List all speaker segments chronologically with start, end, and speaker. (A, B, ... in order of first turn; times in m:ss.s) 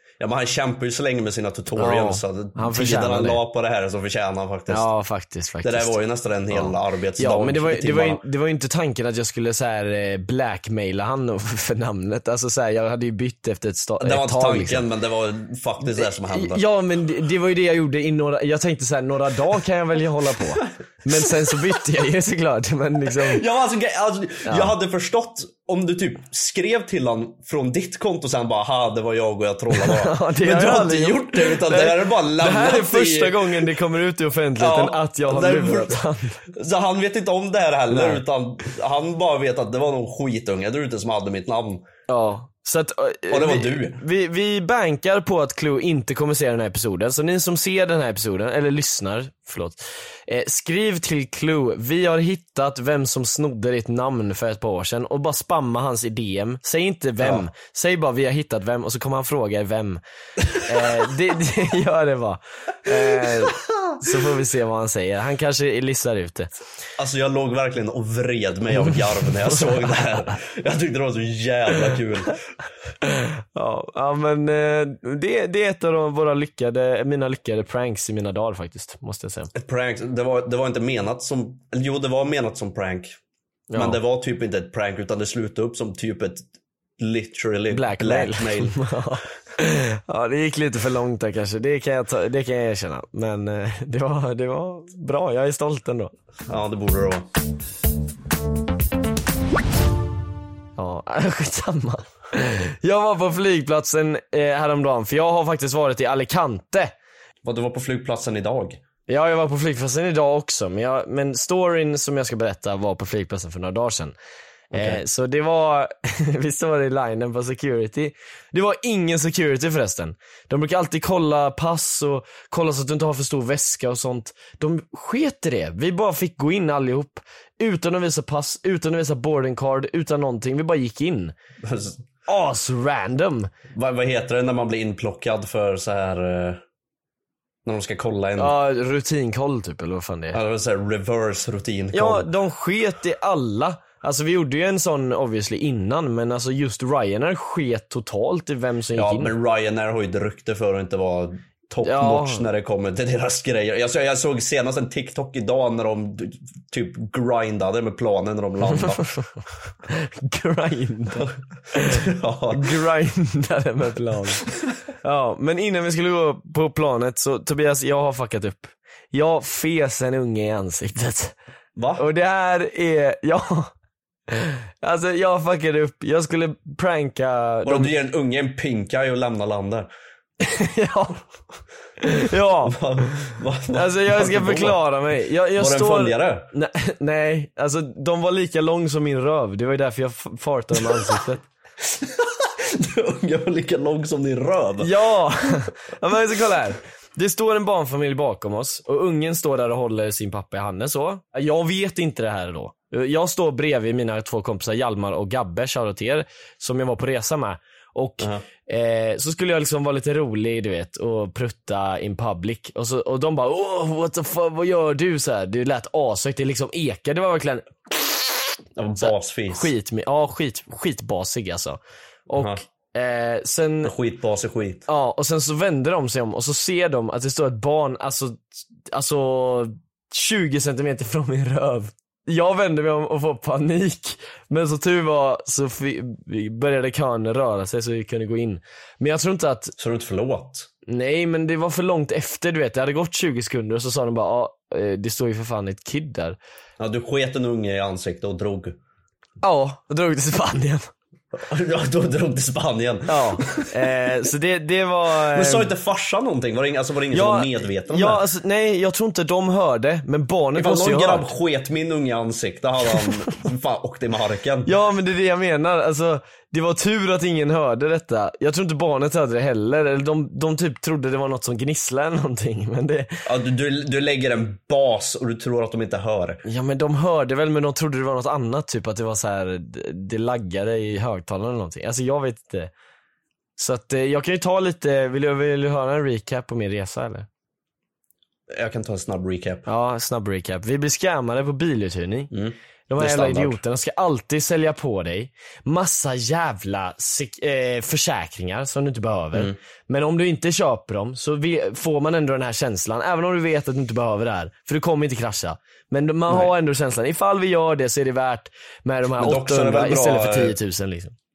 0:00.2-0:04.9 A
0:01.7-0:03.4 B
0:04.7-0:06.0 B
0:05.6-0:08.2 A
0:06.5-0:14.8 B
0:14.0-0:16.6 A
0:15.8-0:23.4 B
0:21.1-0:21.5 A
0:23.1-0:33.7 A
0:24.4-0:24.7 B
0:29.7-0:36.4 B
0:34.6-0:41.8 A
0:37.9-0:38.2 B
0:42.1-1:00.0 B
0:43.3-0:44.0 A
0:57.2-0:57.4 A
1:00.6-1:06.5 B
1:03.1-1:03.5 A
1:07.0-1:12.4 A
1:09.5-1:10.1 B
1:13.0-1:19.5 B
1:19.5-1:23.2 A
1:23.7-1:24.0 B
1:23.7-1:26.4 A
1:27.0-1:28.8 A
1:27.7-1:36.1 B
1:36.5-1:37.3 A
1:40.8-1:46.9 B
1:47.4-1:48.8 A
1:49.1-1:54.1 B
1:54.7-1:55.0 A
1:54.7-2:11.3 B
2:11.6-2:12.0 A
2:12.3-2:13.5 B
2:13.8-2:16.6 A
2:17.6-2:18.6 A
2:18.4-2:20.4 B
2:20.3-2:22.3 A
2:21.9-2:29.3 B
2:29.0-2:39.1 A
2:31.8-2:32.4 B
2:39.9-2:42.0 B
2:41.9-2:42.8 A
2:42.5-2:44.5 B
2:45.0-2:51.3 B
2:51.8-2:52.0 A
2:52.0-2:53.7 B
2:54.3-2:57.9 B
2:57.6-2:59.9 A
3:00.4-3:01.2 B
3:02.0-3:02.8 B
3:02.6-3:04.8 A
3:03.7-3:11.4 B
3:05.6-3:06.5 A
3:10.8-3:11.2 A
3:11.8-3:15.0 A
3:14.8-3:38.4 B
3:38.8-3:39.7 A
3:39.0-3:43.9 B
3:42.3-3:42.6 A
3:43.8-3:44.8 A
3:44.9-3:59.7 B
3:59.8-4:00.7 A
4:00.9-4:06.4 B
4:06.8-4:08.8 A
4:09.4-4:10.9 B
4:11.3-4:13.8 A
4:13.1-4:15.7 B
4:15.3-4:18.2 A
4:17.1-4:21.3 B
4:20.6-4:24.7 A
4:24.6-4:33.1 B
4:33.2-4:36.4 A
4:36.4-4:42.7 B
4:43.6-4:47.3 B
4:48.5-4:49.6 A
4:49.6-4:52.3 B
4:52.3-4:53.6 A
4:52.9-5:11.1 B
4:59.3-4:59.6 A
5:06.3-5:06.5 A
5:09.1-5:10.6 A